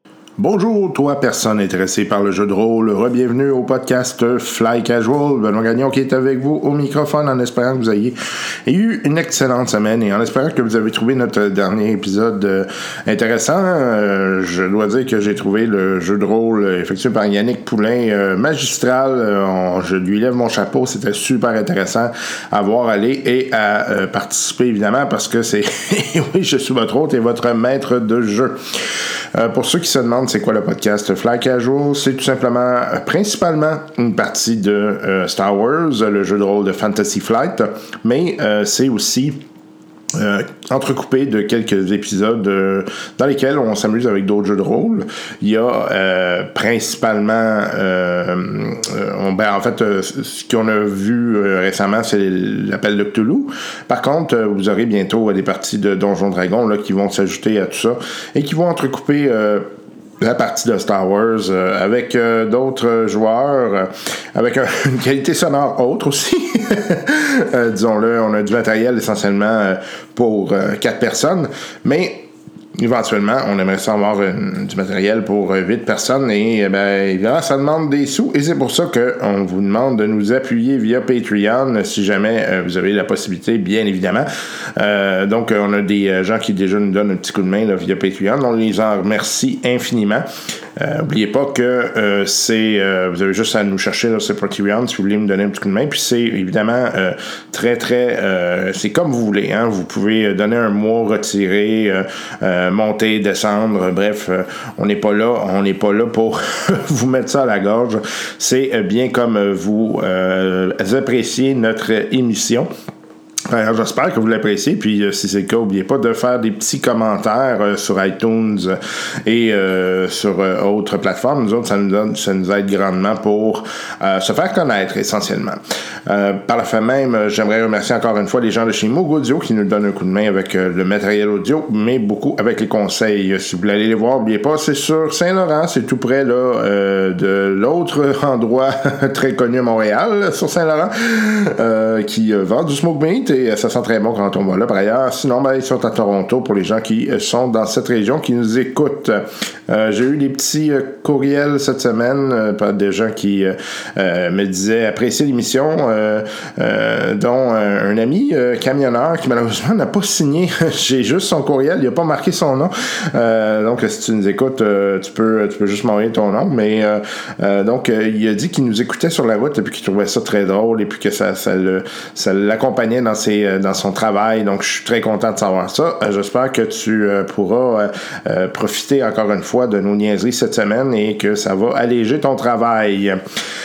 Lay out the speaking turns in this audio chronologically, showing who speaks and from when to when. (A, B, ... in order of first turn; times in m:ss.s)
0:00.4-0:28.6 A
0:29.3-0:39.4 A
0:40.1-1:52.7 A
1:53.5-3:03.2 A